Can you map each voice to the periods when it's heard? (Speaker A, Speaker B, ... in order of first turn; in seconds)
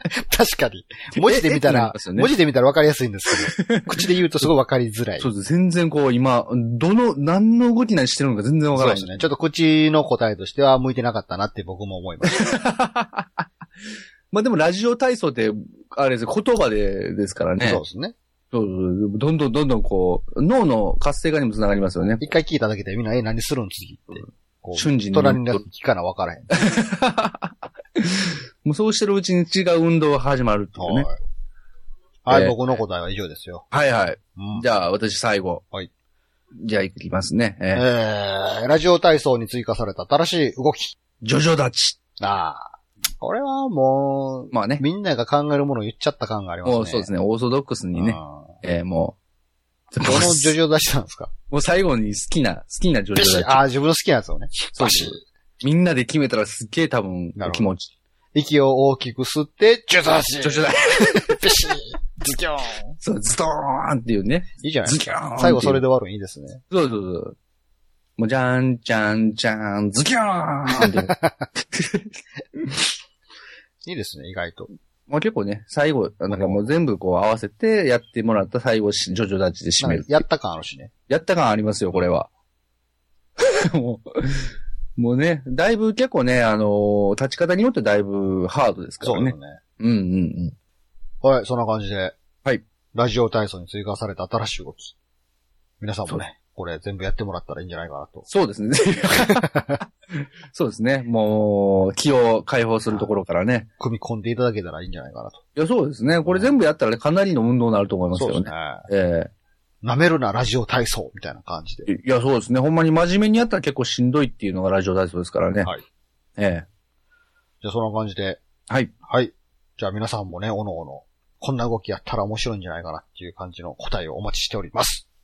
Speaker A: 0.2-5.3, 8.7-12.5, 17.6-18.1, 22.2-26.5, 30.8-31.2, 32.2-33.7, 34.4-34.6, 37.7-41.0, 42.2-47.1, 48.0-48.6, 50.0-51.3, 53.1-55.2, 57.4-57.7, 58.4-63.0, 64.6-66.6, 70.8-71.5, 73.8-74.7, 76.3-76.7, 79.8-80.9, 89.0-89.6, 91.2-92.2, 92.9-94.9, 95.8-98.3, 99.2-99.8, 103.8-105.4, 106.2-106.5, 108.1-108.9, 109.8-111.9, 117.6-118.4, 119.0-125.0
Speaker B: 1.1-2.3, 3.5-4.0, 5.2-9.2, 12.3-13.4, 14.3-17.8, 18.5-22.3, 24.8-25.6, 26.5-31.1, 32.3-32.6, 33.7-35.6, 36.6-37.9, 41.2-42.0, 44.5-44.8, 46.6-49.2, 49.9-50.6, 51.5-53.6, 54.8-57.9, 60.4-61.5, 63.0-65.8, 66.7-67.4, 68.2-72.1, 75.1-80.2, 81.1-82.3, 83.4-90.5, 98.3-103.7, 105.6-109.3, 111.9-115.7, 116.4-116.7